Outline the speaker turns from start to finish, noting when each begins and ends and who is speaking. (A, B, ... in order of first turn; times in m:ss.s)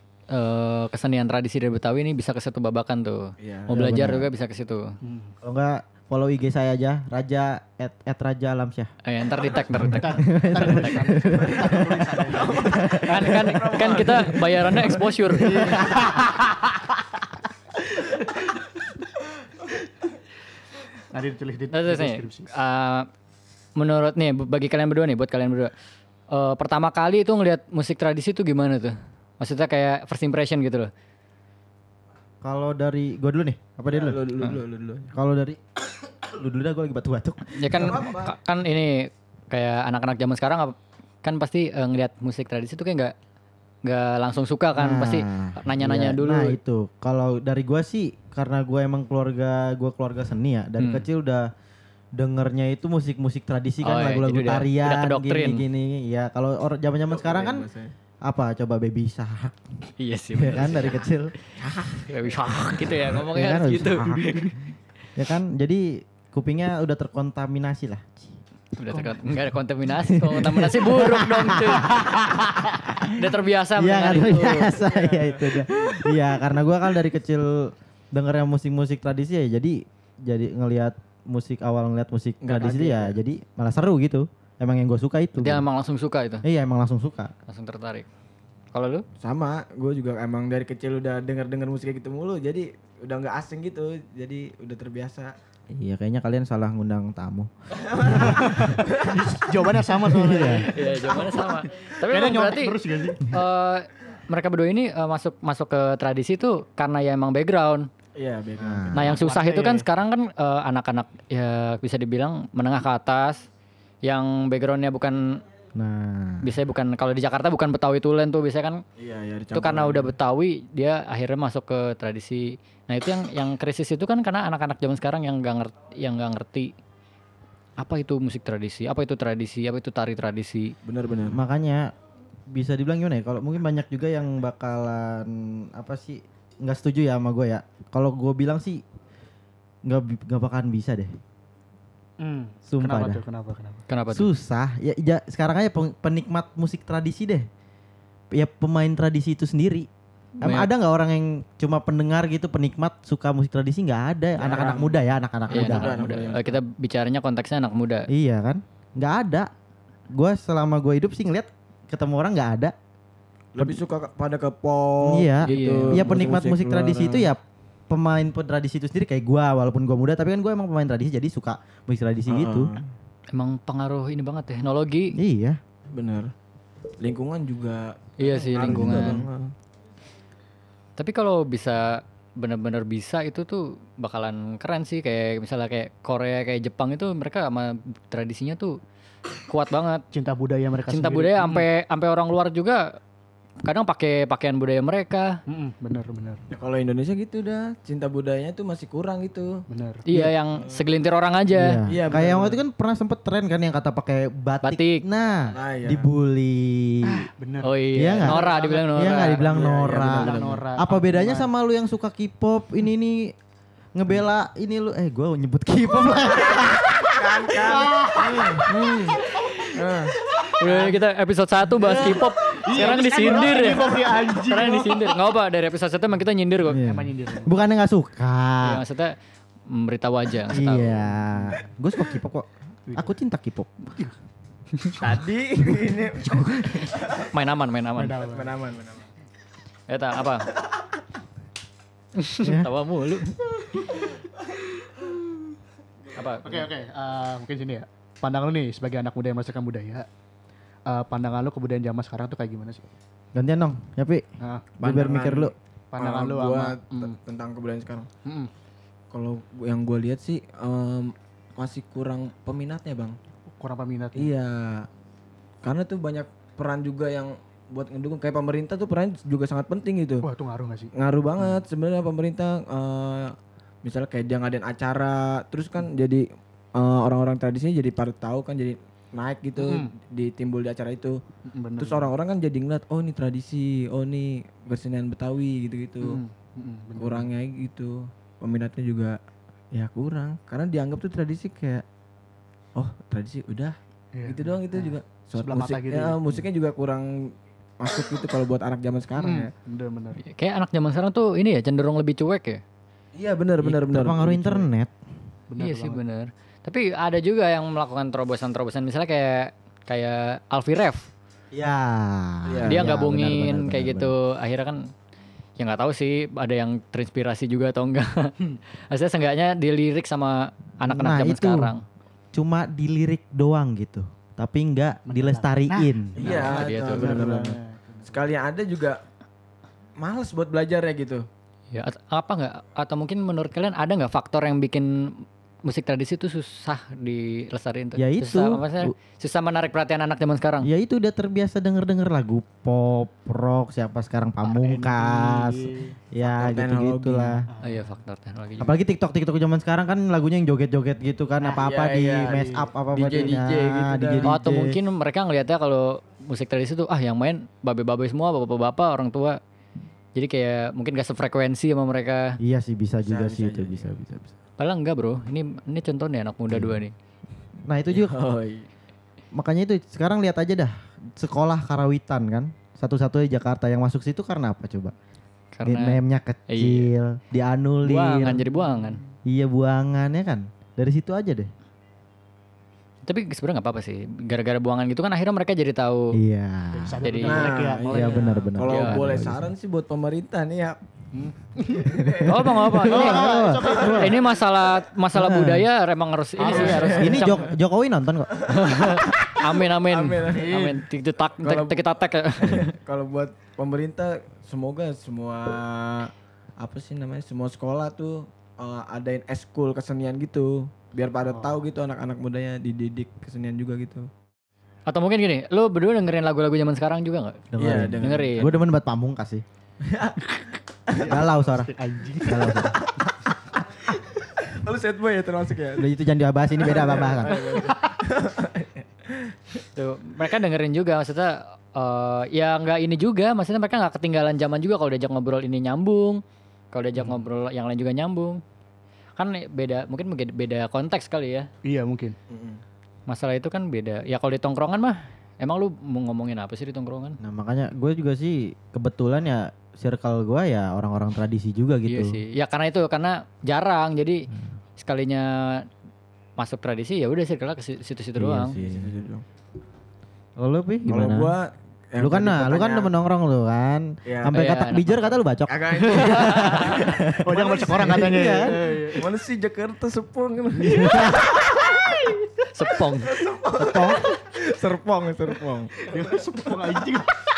0:00.3-0:04.9 A
0:03.4-0:03.7 B
0:03.7-0:04.3 C
0:05.0-0:05.4 D
0:05.4-0:08.9 C
0:09.0-0:10.2 A
0:09.7-0:13.6 C
0:09.8-0:12.8 D
0:11.4-0:14.9 B
0:12.9-0:15.9 A
0:15.3-0:16.4 D
0:15.6-0:15.9 C
0:21.1-0:22.5 D
0:21.7-0:23.1 A
0:23.8-0:25.7 A
0:26.3-0:30.9 A
0:32.4-0:38.0 C
0:33.9-0:35.1 B
0:37.5-0:43.1 A
0:37.7-0:38.3 B
0:43.8-0:46.6 A
0:44.7-0:51.5 C
0:50.8-0:51.0 A
0:52.2-0:57.7 C
0:53.8-0:55.6 A
0:57.1-0:57.9 B
0:58.2-0:59.6 C
1:00.0-1:01.1 A
1:00.3-1:01.3 C
1:01.6-1:02.1 B
1:02.0-1:04.5 A
1:03.2-1:04.5 C
1:05.2-1:08.4 C
1:08.7-1:12.5 A
1:10.0-1:13.1 C
1:13.0-1:14.7 A
1:13.8-1:25.6 C
1:14.7-1:16.0 B
1:22.4-1:23.2 B
1:25.4-1:26.4 A
1:26.4-1:27.3 C
1:27.5-1:28.1 A
1:28.7-1:29.0 A
1:29.2-1:35.3 B
1:35.7-1:37.5 C
1:37.7-1:39.4 B
1:38.0-1:38.8 C
1:38.1-1:40.9 D
1:40.0-1:40.7 C
1:40.5-1:41.6 B
1:40.7-1:47.9 A
1:41.9-1:43.3 D
1:48.1-1:49.1 B
1:48.6-1:49.2 C
1:48.9-1:53.4 A
1:49.2-1:49.8 D
1:54.0-1:55.4 A
1:55.8-1:56.5 C
1:56.4-1:58.8 A
1:59.0-2:00.1 B
1:59.5-2:06.7 A
2:07.8-2:10.8 A
2:10.8-2:11.4 B
2:11.3-2:11.9 C
2:12.5-2:18.8 C
2:19.8-2:21.1 C
2:22.2-2:23.8 D
2:22.7-2:23.2 C
2:23.9-2:24.3 A
2:24.1-2:27.4 C
2:28.3-2:29.9 C
2:30.4-2:35.9 C
2:30.4-2:30.7 A
2:34.4-2:36.6 B
2:35.5-2:38.1 A
2:38.1-2:39.5 C
2:40.1-2:42.7 C
2:43.5-2:47.3 B
2:45.0-2:52.7 C
2:45.4-2:46.0 A
2:52.3-2:52.9 B
2:53.3-2:55.2 A
2:55.1-2:55.6 C
2:55.9-2:56.3 B
2:57.0-2:59.5 B
2:58.2-2:59.2 A
2:58.7-2:59.2 C
3:01.0-3:08.8 A
3:09.5-3:10.0 A
3:10.1-3:11.6 D
3:10.9-3:13.0 A
3:13.6-3:15.4 A
3:15.5-3:16.4 D
3:16.5-3:19.6 B
3:19.7-3:20.0 D
3:20.1-3:21.8 A
3:20.5-3:20.8 B
3:21.5-3:27.3 C
3:21.9-3:22.6 B
3:24.6-3:25.0 A
3:25.5-3:26.1 B
3:27.0-3:31.5 D
3:27.6-3:29.6 A
3:28.0-3:33.3 C
3:29.4-3:30.6 B
3:34.0-3:38.7 C
3:37.1-3:40.2 B
3:37.7-3:38.6 D
3:39.4-3:39.7 A
3:40.4-3:46.8 A
3:40.6-3:41.0 D
3:41.7-3:45.1 D
3:46.7-3:48.8 C
3:46.8-3:47.6 D
3:48.6-3:49.1 A
3:49.7-3:51.1 A
3:50.5-3:53.8 C
3:51.3-3:51.6 D
3:55.0-3:57.3 B
3:57.0-3:58.2 A
3:58.0-3:58.5 D
3:58.2-3:59.0 B
3:59.9-4:00.5 A
4:02.2-4:03.4 A
4:02.4-4:02.7 C
4:06.1-4:06.7 A
4:06.4-4:10.1 D
4:10.9-4:12.8 D
4:13.3-4:14.2 C
4:14.4-4:14.7 D
4:14.8-4:15.5 C
4:14.8-4:18.1 B
4:15.9-4:17.2 D
4:18.2-4:18.5 D
4:19.1-4:23.2 B
4:23.5-4:24.3 D
4:24.1-4:24.9 B
4:25.6-4:30.3 B
4:30.2-4:30.9 D
4:31.0-4:36.2 B
4:36.8-4:41.2 B
4:39.6-4:39.9 D
4:41.5-4:42.1 D
4:41.8-4:46.2 B
4:46.0-4:47.3 D
4:47.0-4:49.2 B
4:49.7-4:51.8 B
4:52.8-4:59.5 B
4:54.1-4:56.4 D
4:59.2-5:00.2 D
5:00.2-5:02.6 A
5:03.1-5:04.7 B
5:03.6-5:04.9 C
5:05.5-5:06.0 D
5:05.6-5:11.1 A
5:11.5-5:14.1 C
5:12.4-5:12.9 B
5:12.7-5:14.8 A
5:15.6-5:21.8 A
5:20.8-5:21.7 C
5:22.3-5:26.3 C
5:25.1-5:28.2 D
5:26.2-5:29.0 B
5:26.2-5:27.1 A
5:30.0-5:31.2 B
5:31.7-5:40.7 A
5:38.0-5:38.9 C
5:40.6-5:47.5 C
5:44.4-5:46.0 D
5:46.2-5:47.4 B
5:47.5-5:47.9 D
5:47.6-5:48.8 A
5:48.6-5:54.8 C
5:51.4-5:51.6 D
5:51.6-5:54.3 B
5:52.3-5:52.7 D
5:54.2-5:59.4 A
6:00.1-6:02.4 A
6:02.4-6:04.3 C
6:03.0-6:03.9 B
6:04.6-6:06.9 A
6:06.5-6:06.8 C
6:07.6-6:08.1 C
6:07.9-6:08.7 B
6:09.3-6:14.9 C
6:15.5-6:16.9 A
6:15.6-6:18.4 C
6:17.8-6:19.0 A
6:18.5-6:19.1 D
6:19.2-6:21.5 C
6:23.0-6:26.2 A
6:26.1-6:27.0 C
6:26.7-6:28.5 D
6:27.0-6:27.6 A
6:27.2-6:30.8 B
6:27.9-6:29.5 C
6:28.7-6:29.0 A
6:31.1-6:32.0 D
6:31.7-6:32.9 B
6:32.0-6:34.2 C
6:32.2-6:37.5 A
6:32.9-6:34.2 D
6:35.1-6:35.7 C
6:36.4-6:37.4 D
6:36.4-6:37.3 B
6:36.9-6:38.4 C
6:38.4-6:40.7 B
6:38.4-6:42.7 A
6:40.3-6:40.8 D
6:41.3-6:41.8 B
6:42.4-6:54.1 B
6:51.3-6:51.6 D
6:54.9-6:58.5 A
6:57.5-6:59.4 C
6:57.6-6:58.6 B
6:59.8-7:00.3 B
7:00.9-7:01.2 B
7:01.0-7:02.6 D
7:01.0-7:02.7 C
7:02.2-7:02.7 B
7:04.4-7:05.9 B
7:05.8-7:07.4 C
7:06.6-7:09.6 B
7:07.3-7:07.8 D
7:09.8-7:18.4 A
7:19.2-7:21.5 A
7:21.6-7:22.2 D
7:22.3-7:22.6 B
7:23.1-7:27.2 A
7:27.2-7:32.2 C
7:31.9-7:34.3 A
7:34.8-7:35.7 A
7:36.4-7:38.5 A
7:38.2-7:38.9 C
7:38.5-7:39.2 B
7:40.4-7:41.4 C
7:40.9-7:42.9 B
7:42.0-7:48.7 C
7:44.0-7:44.4 B
7:44.3-7:45.1 A
7:45.5-7:48.3 B
7:45.8-7:46.8 A
7:47.2-7:49.1 D
7:48.9-7:52.2 B
7:50.8-7:51.2 C
7:52.4-7:53.2 A
7:53.0-7:56.6 B
7:55.8-7:57.1 D